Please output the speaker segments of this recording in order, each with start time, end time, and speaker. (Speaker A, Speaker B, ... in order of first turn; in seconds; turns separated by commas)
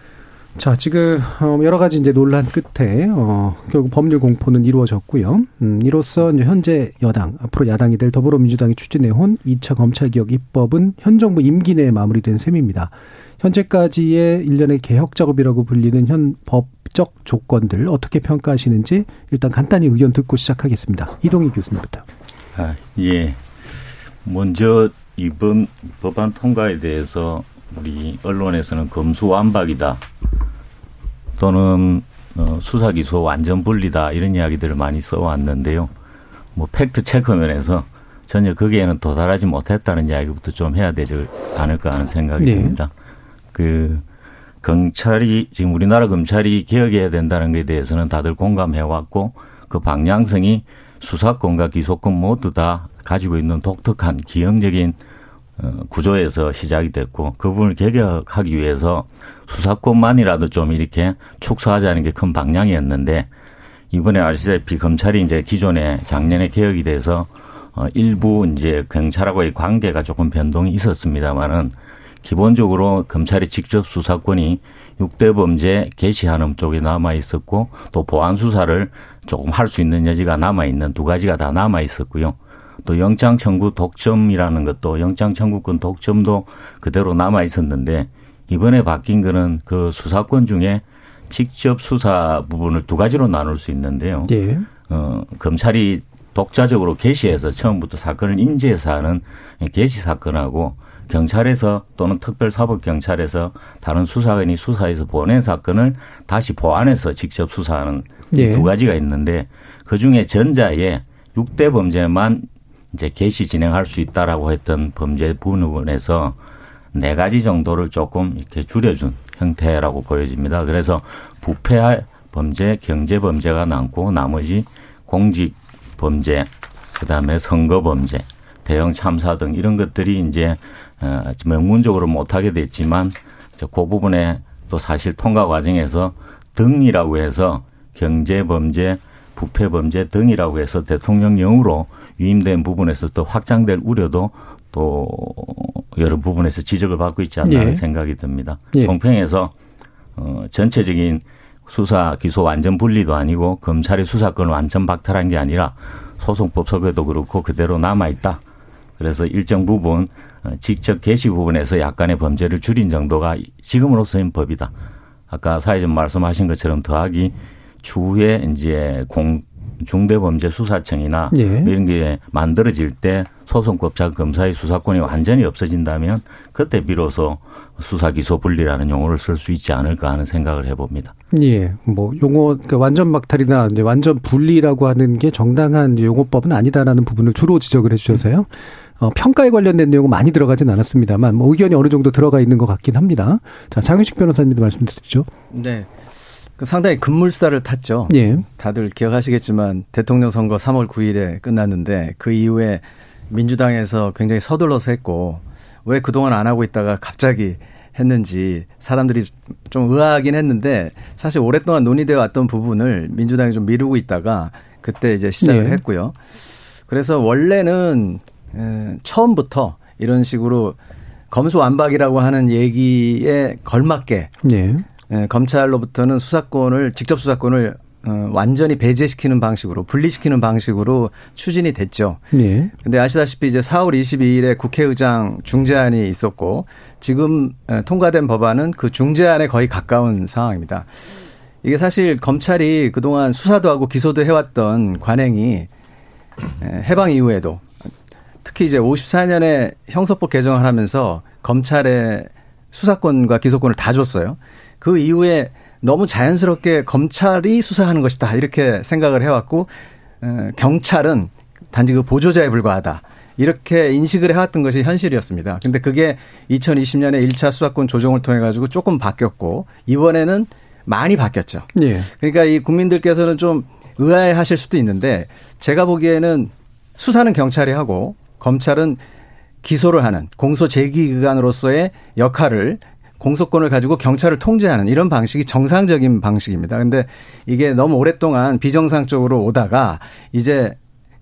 Speaker A: 0.6-22.0, Speaker B: 22.6-23.4, Speaker B: 24.2-30.0, Speaker B: 31.4-35.9, Speaker B: 36.5-42.9, Speaker A: 42.4-42.8, Speaker B: 43.5-44.0, Speaker B: 44.6-55.0, Speaker B: 55.6-63.3, Speaker B: 63.9-94.3, Speaker A: 94.3-94.7, Speaker B: 94.9-116.4, Speaker A: 108.3-108.7, Speaker B: 116.9-149.5, Speaker A: 147.4-147.8, Speaker B: 150.2-158.4, Speaker B: 159.0-164.7, Speaker B: 165.3-181.1, Speaker A: 171.3-171.7, Speaker A: 181.3-195.3, Speaker C: 195.5-195.9, Speaker C: 196.6-216.2, Speaker A: 198.1-198.4, Speaker A: 215.4-215.8, Speaker C: 216.9-220.8, Speaker C: 221.3-224.4, Speaker A: 224.4-224.8, Speaker C: 225.1-232.2, Speaker A: 232.3-232.7, Speaker C: 232.8-240.9, Speaker C: 241.6-245.7, Speaker C: 246.6-247.7, Speaker C: 248.4-279.0, Speaker A: 271.8-272.1, Speaker C: 279.6-290.8